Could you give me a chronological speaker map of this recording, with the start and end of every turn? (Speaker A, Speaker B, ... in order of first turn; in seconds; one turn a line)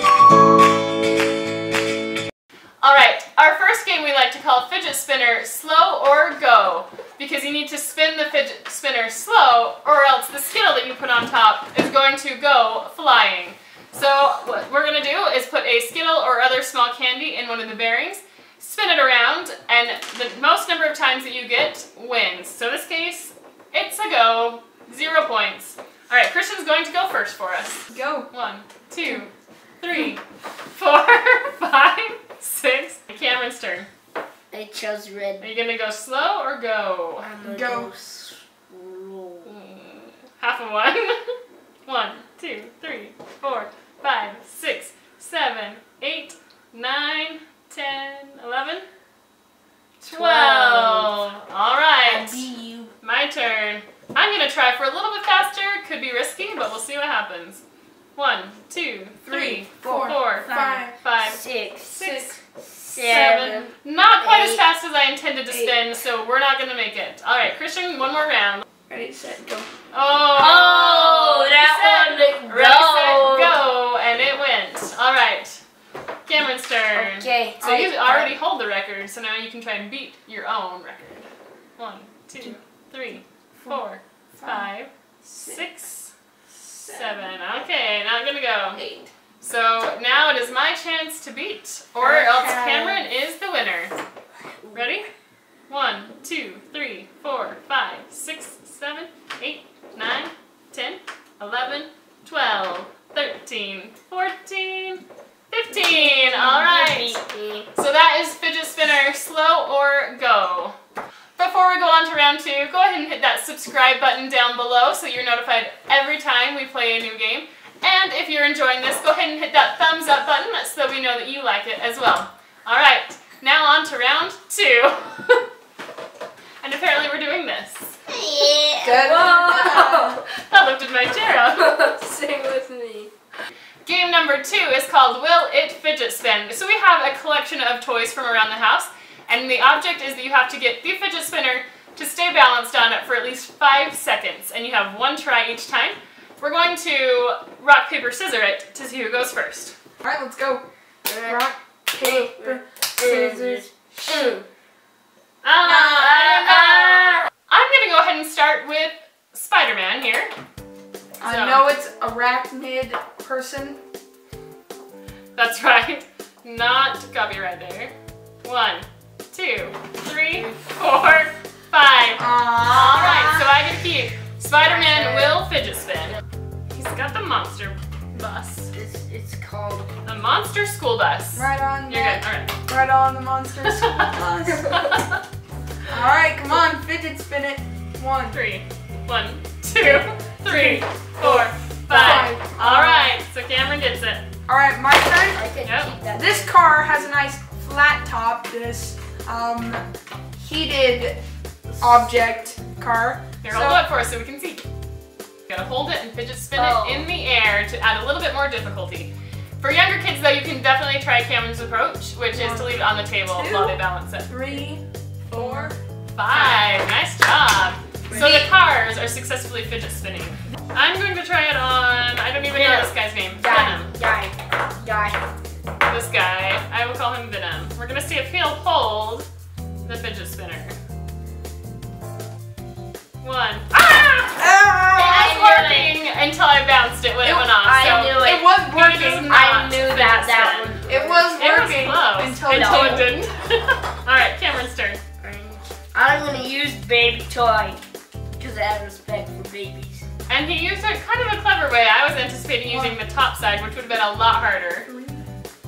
Speaker A: 2.8-29.3
Speaker B: 27.9-28.3
Speaker A: 29.8-33.9
Speaker C: 34.5-35.5
Speaker A: 35.4-37.3
Speaker C: 37.2-39.5
Speaker B: 37.4-37.9
Speaker A: 39.4-41.3
Speaker A: 41.9-48.9
Speaker A: 50.0-52.5
Speaker C: 50.1-51.1
Speaker C: 52.0-52.9
Speaker A: 53.0-57.6
Speaker A: 58.1-60.5
Speaker B: 59.2-61.0
Speaker C: 60.3-62.1
Speaker A: 61.0-68.6
Speaker B: 62.0-62.4
Speaker C: 62.9-64.6
Speaker B: 65.5-65.8
Speaker B: 68.9-69.7
Speaker A: 69.9-75.6
Speaker C: 70.3-73.6
Speaker A: 76.2-86.1
Speaker C: 76.9-78.3
Speaker B: 84.4-84.7
Speaker B: 85.2-85.6
Speaker B: 86.7-87.3
Speaker A: 86.8-88.8
Speaker B: 88.8-89.1
Speaker A: 89.4-94.0
Speaker B: 92.0-93.1
Speaker C: 94.6-94.9
Speaker A: 94.7-95.1
Speaker A: 95.7-107.2
Speaker C: 105.7-107.7
Speaker A: 107.7-110.8
Speaker A: 111.3-125.4
Speaker A: 126.6-127.9
Speaker C: 128.1-130.2
Speaker B: 128.8-130.2
Speaker A: 130.2-131.7
Speaker C: 131.4-133.1
Speaker A: 133.8-149.7
Speaker B: 150.0-150.7
Speaker C: 151.1-151.4
Speaker B: 151.2-154.3
Speaker C: 152.0-154.4
Speaker A: 155.4-160.3
Speaker B: 155.6-156.2
Speaker B: 161.2-163.8
Speaker A: 161.2-161.7
Speaker A: 165.3-176.2
Speaker B: 172.2-173.5
Speaker C: 174.6-175.4
Speaker A: 176.7-178.7
Speaker C: 178.7-179.9
Speaker A: 180.0-182.5
Speaker B: 181.3-184.9
Speaker A: 183.8-184.1
Speaker A: 184.7-185.2
Speaker B: 185.9-188.4
Speaker A: 188.3-194.2
Speaker B: 190.4-190.8
Speaker C: 190.6-191.4
Speaker B: 191.9-193.2
Speaker B: 194.5-195.5
Speaker C: 195.3-197.1
Speaker A: 195.6-195.9
Speaker B: 196.1-199.8
Speaker B: 200.4-201.2
Speaker C: 201.7-202.6
Speaker B: 201.8-203.8
Speaker A: 203.4-204.6
Speaker A: 205.5-214.6
Speaker C: 206.5-207.1
Speaker B: 212.3-215.7
Speaker A: 215.3-223.9
Speaker B: 216.3-216.6
Speaker C: 218.1-218.5
Speaker C: 222.5-225.2
Speaker A: 225.8-229.2
Speaker A: 229.8-230.8
Speaker A: 233.2-240.7
Speaker B: 234.4-235.3
Speaker C: 234.9-236.0
Speaker B: 237.2-239.4
Speaker C: 237.6-238.5
Speaker C: 239.3-241.3
Speaker B: 240.9-243.3
Speaker A: 241.3-245.0
Speaker C: 242.5-243.1
Speaker C: 245.2-247.8
Speaker C: 248.4-250.1
Speaker A: 250.3-254.9
Speaker B: 252.7-253.0
Speaker B: 254.8-255.2